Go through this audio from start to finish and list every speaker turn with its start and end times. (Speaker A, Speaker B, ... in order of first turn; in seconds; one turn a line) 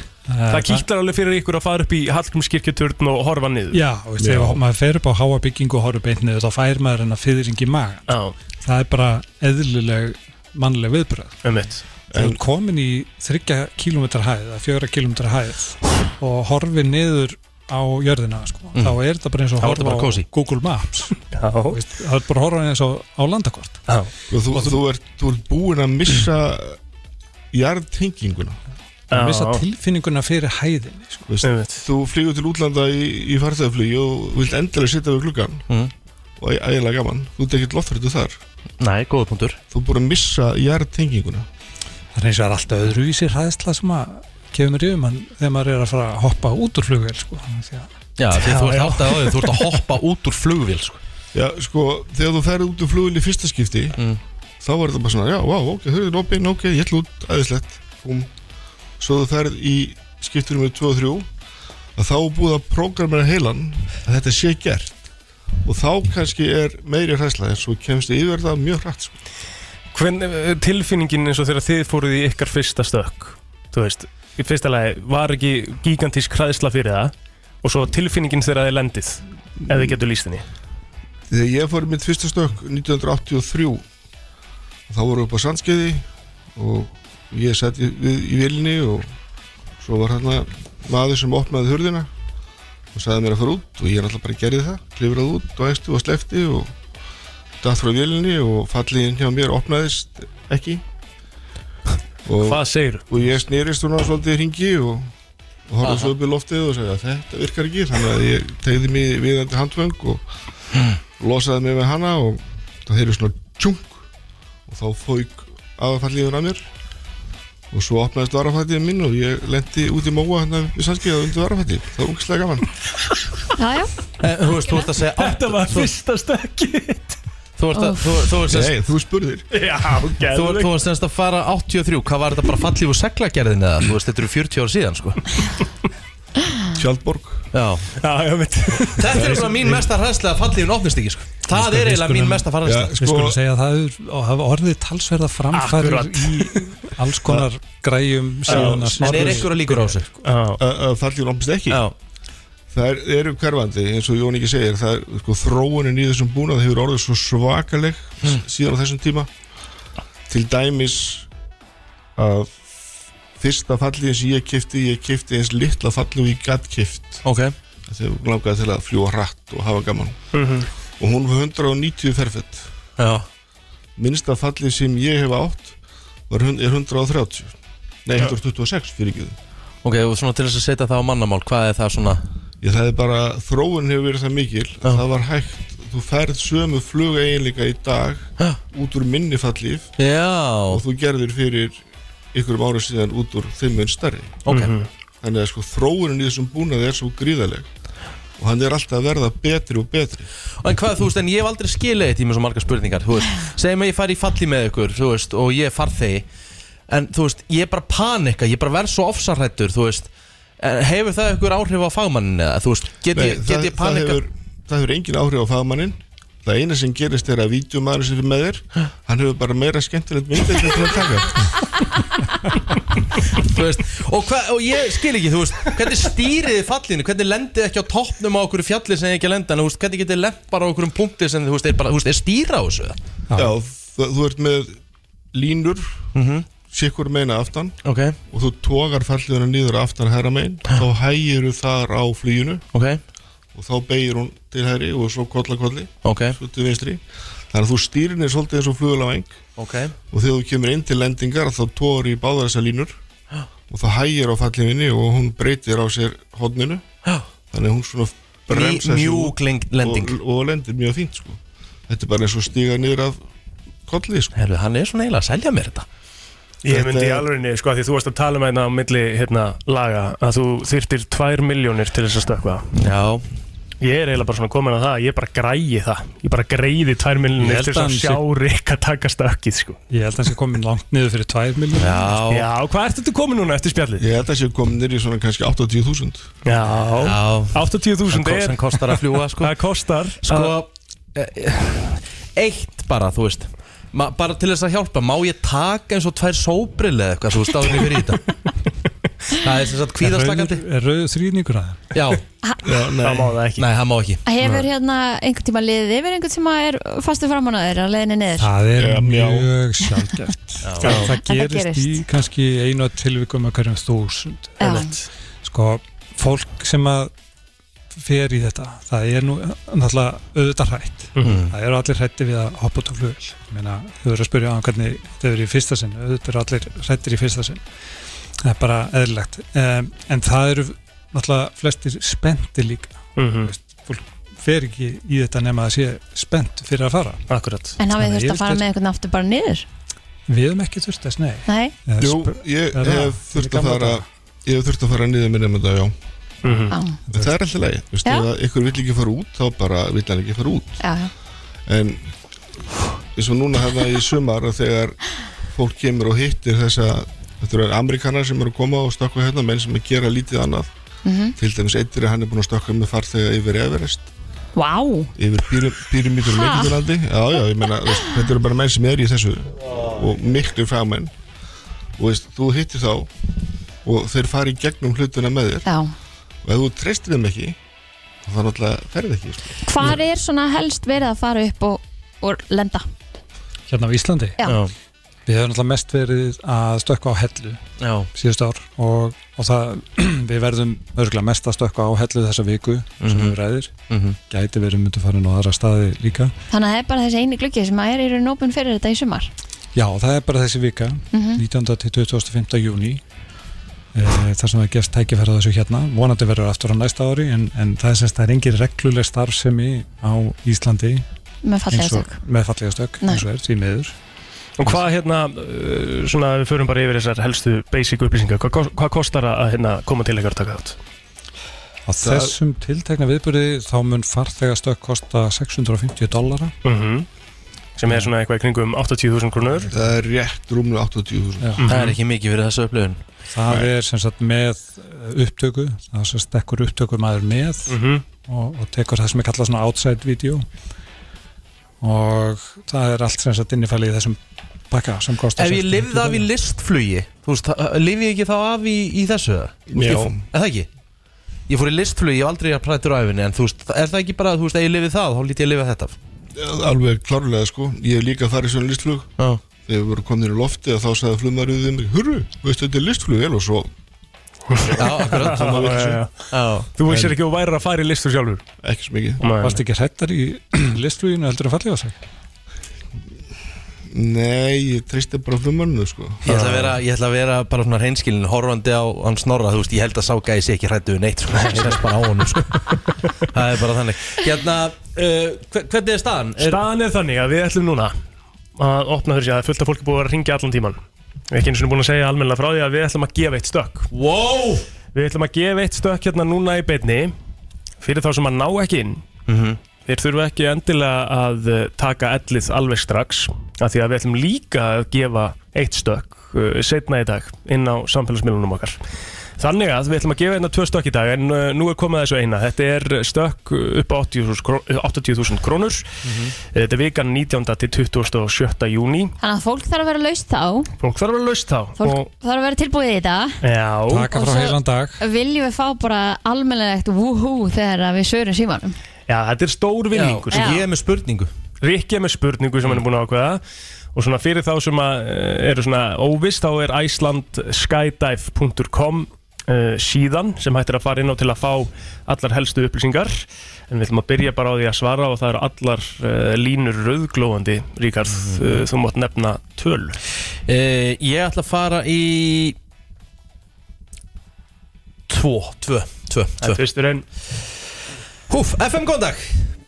Speaker A: 0.3-0.8
Speaker B: 0.5-3.8
Speaker A: 3.7-11.5
Speaker C: 4.2-4.6
Speaker B: 8.1-8.3
Speaker B: 11.4-11.8
Speaker C: 12.1-12.4
Speaker A: 12.1-23.9
Speaker D: 18.7-19.0
Speaker D: 19.6-20.3
Speaker B: 21.3-21.8
Speaker C: 24.3-26.8
Speaker A: 24.5-24.8
Speaker C: 27.5-28.6
Speaker A: 29.1-31.3
Speaker B: 29.1-29.6
Speaker C: 31.2-35.7
Speaker B: 31.4-31.8
Speaker C: 36.4-38.4
Speaker D: 38.8-39.6
Speaker C: 39.7-41.5
Speaker A: 42.1-47.9
Speaker D: 48.2-51.0
Speaker A: 48.4-49.2
Speaker C: 51.3-54.0
Speaker D: 53.9-54.2
Speaker C: 54.6-58.3
Speaker C: 59.0-61.2
Speaker C: 62.0-65.0
Speaker C: 65.6-69.1
Speaker B: 69.9-80.4
Speaker C: 81.3-83.8
Speaker C: 84.9-86.0
Speaker C: 86.5-89.1
Speaker C: 89.8-92.1
Speaker C: 92.9-96.7
Speaker C: 97.6-100.8
Speaker C: 102.2-105.1
Speaker B: 102.4-103.0
Speaker C: 105.7-110.2
Speaker D: 105.8-106.1
Speaker C: 111.2-114.0
Speaker C: 114.7-116.6
Speaker C: 117.7-122.7
Speaker E: 123.6-123.9
Speaker D: 124.2-125.9
Speaker B: 125.1-127.2
Speaker D: 127.6-128.7
Speaker E: 127.7-128.1
Speaker C: 128.4-129.5
Speaker B: 129.5-130.7
Speaker D: 130.3-135.2
Speaker C: 136.7-137.4
Speaker D: 137.5-137.9
Speaker B: 138.0-139.3
Speaker D: 139.0-143.0
Speaker A: 139.2-139.8
Speaker A: 141.5-150.0
Speaker C: 142.6-143.4
Speaker B: 145.5-146.8
Speaker D: 148.5-150.1
Speaker C: 148.5-149.3
Speaker B: 148.5-148.8
Speaker B: 150.2-150.6
Speaker C: 150.6-151.8
Speaker D: 151.7-151.9
Speaker C: 152.7-159.3
Speaker C: 160.3-161.3
Speaker C: 162.2-162.8
Speaker C: 163.4-167.2
Speaker D: 167.2-167.5
Speaker C: 167.9-170.2
Speaker B: 170.3-170.7
Speaker C: 171.0-172.7
Speaker D: 173.0-173.3
Speaker C: 174.0-175.8
Speaker C: 176.3-177.5
Speaker C: 178.0-179.3
Speaker D: 179.8-182.2
Speaker C: 182.6-189.9
Speaker D: 190.0-190.8
Speaker C: 190.7-191.8
Speaker C: 192.3-194.4
Speaker D: 194.4-194.7
Speaker B: 194.5-194.9
Speaker C: 195.2-197.7
Speaker C: 198.4-200.3
Speaker D: 200.6-206.3
Speaker D: 206.9-214.2
Speaker C: 213.1-221.5
Speaker D: 223.3-233.0
Speaker C: 233.3-234.8
Speaker C: 235.3-236.1
Speaker D: 236.1-236.5
Speaker C: 236.7-237.8
Speaker D: 237.8-238.2
Speaker C: 238.3-242.7
Speaker D: 242.7-243.0
Speaker C: 243.5-249.4
Speaker D: 246.0-246.4
Speaker D: 249.6-249.9
Speaker C: 250.1-253.0
Speaker C: 253.7-256.9
Speaker C: 257.5-263.2
Speaker D: 258.5-260.2
Speaker C: 263.9-264.3
Speaker D: 264.3-265.9
Speaker B: 266.6-272.7
Speaker C: 266.7-267.3
Speaker D: 272.8-273.2
Speaker B: 273.8-279.8
Speaker A: 277.4-278.2
Speaker A: 279.9-282.1
Speaker D: 281.8-282.5
Speaker B: 282.3-284.1
Speaker C: 284.0-286.3
Speaker B: 286.4-290.6
Speaker D: 287.0-289.5
Speaker D: 290.2-298.2
Speaker D: 299.3-300.6
Speaker A: 300.0-301.9
Speaker D: 301.9-302.2
Speaker C: 302.6-303.4
Speaker B: 303.0-303.6
Speaker D: 303.6-304.2
Speaker E: 304.2-308.5
Speaker A: 308.4-314.8
Speaker C: 308.8-309.5
Speaker D: 310.6-311.1
Speaker E: 310.8-312.0
Speaker E: 314.6-314.9
Speaker B: 314.6-314.9
Speaker A: 315.4-317.1
Speaker A: 317.9-327.6
Speaker D: 321.2-321.5
Speaker A: 328.4-337.2
Speaker B: 333.1-333.5
Speaker B: 337.3-337.8
Speaker E: 337.8-339.6
Speaker A: 337.8-338.6
Speaker A: 340.3-344.0
Speaker E: 341.4-341.8
Speaker C: 342.0-345.9
Speaker B: 346.4-346.8
Speaker E: 346.7-347.0
Speaker C: 347.1-350.8
Speaker E: 350.8-351.1
Speaker C: 351.7-352.1
Speaker C: 353.1-355.0
Speaker C: 355.5-360.7
Speaker E: 361.0-361.4
Speaker C: 361.4-364.1
Speaker E: 364.6-365.1
Speaker C: 365.1-371.1
Speaker E: 366.3-366.8
Speaker C: 372.0-373.1
Speaker C: 373.8-375.6
Speaker E: 375.6-375.9
Speaker C: 376.4-377.6
Speaker C: 378.2-379.6
Speaker E: 379.6-382.9
Speaker A: 383.7-384.4
Speaker D: 384.4-384.7
Speaker A: 385.2-387.6
Speaker D: 387.8-388.1
Speaker A: 388.1-393.7
Speaker D: 393.0-393.4
Speaker D: 393.9-394.2
Speaker A: 394.3-396.3
Speaker E: 396.5-399.3
Speaker A: 399.7-403.0
Speaker E: 401.1-401.4
Speaker A: 403.9-411.0
Speaker E: 411.4-412.2
Speaker A: 411.7-413.9
Speaker B: 414.6-420.8
Speaker A: 421.9-426.5
Speaker C: 422.0-422.3
Speaker B: 426.6-427.1
Speaker B: 427.8-429.7
Speaker C: 429.7-431.5
Speaker B: 431.6-431.9
Speaker D: 431.6-433.0
Speaker A: 433.3-440.4
Speaker B: 437.7-438.0
Speaker A: 441.8-446.3
Speaker D: 445.4-450.7
Speaker C: 449.7-450.2
Speaker D: 451.5-455.9
Speaker C: 456.3-459.1
Speaker C: 459.6-463.7
Speaker B: 464.5-468.4
Speaker D: 464.7-465.8
Speaker C: 464.8-466.0
Speaker D: 466.3-466.7
Speaker C: 466.9-467.1
Speaker C: 468.6-469.2
Speaker B: 469.2-469.6
Speaker A: 469.4-472.0
Speaker C: 473.9-476.2
Speaker B: 476.2-476.8
Speaker D: 476.2-486.6
Speaker B: 481.4-481.8
Speaker B: 486.4-487.9
Speaker B: 488.6-493.9
Speaker D: 493.9-494.6
Speaker B: 494.9-497.1
Speaker B: 497.8-499.1
Speaker D: 499.3-499.6
Speaker B: 499.9-508.8
Speaker B: 509.4-515.9
Speaker D: 516.0-516.3
Speaker B: 516.4-519.1
Speaker E: 519.2-520.7
Speaker B: 520.8-522.1
Speaker E: 521.8-523.4
Speaker B: 523.4-524.1
Speaker A: 523.9-525.0
Speaker E: 524.1-528.8
Speaker B: 529.1-530.4
Speaker D: 529.9-531.3
Speaker E: 530.3-530.6
Speaker B: 531.6-533.4
Speaker B: 533.9-550.0
Speaker D: 548.1-548.6
Speaker D: 550.5-552.6
Speaker D: 555.1-556.6
Speaker B: 556.4-557.0
Speaker D: 558.3-559.5